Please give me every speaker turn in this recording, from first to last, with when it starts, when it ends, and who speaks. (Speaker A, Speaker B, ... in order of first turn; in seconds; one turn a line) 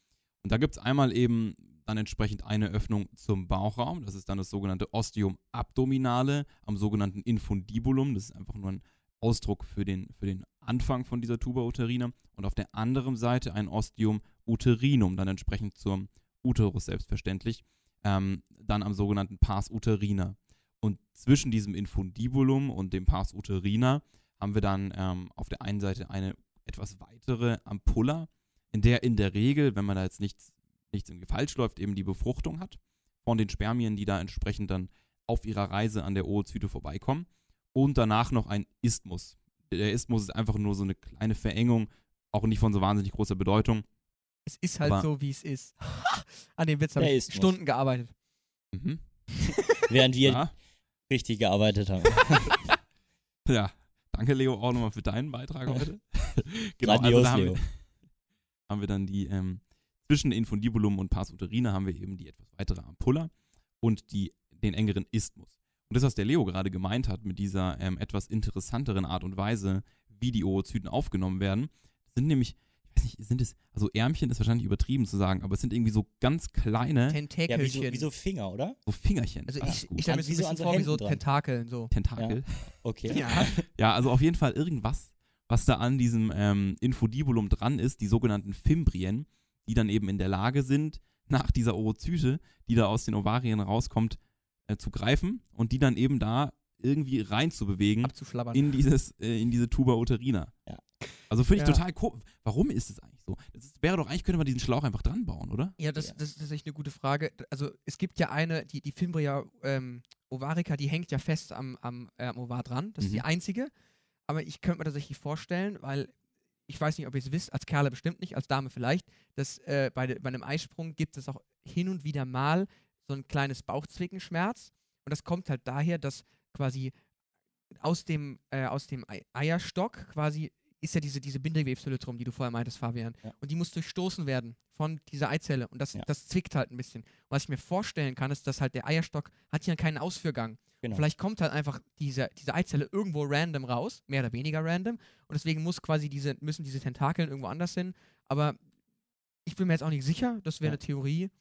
Speaker A: 0.4-43.9
Speaker B: 44.5-48.1
Speaker A: 44.8-45.1
Speaker C: 47.0-47.5
Speaker A: 48.7-49.0
Speaker C: 49.9-50.5
Speaker A: 50.2-50.5
Speaker C: 51.1-52.5
Speaker A: 53.5-57.7
Speaker C: 56.8-57.6
Speaker A: 58.7-77.2
Speaker B: 77.1-78.1
Speaker C: 77.5-78.8
Speaker A: 78.9-80.1
Speaker B: 79.5-81.9
Speaker C: 79.6-81.2
Speaker A: 81.9-100.5
Speaker C: 82.2-83.6
Speaker B: 83.1-83.5
Speaker B: 98.0-98.7
Speaker A: 101.3-105.8
Speaker B: 101.6-101.8
Speaker B: 105.8-113.7
Speaker A: 113.0-113.2
Speaker B: 114.3-116.1
Speaker B: 116.7-126.9
Speaker B: 127.8-148.6
Speaker B: 149.4-151.3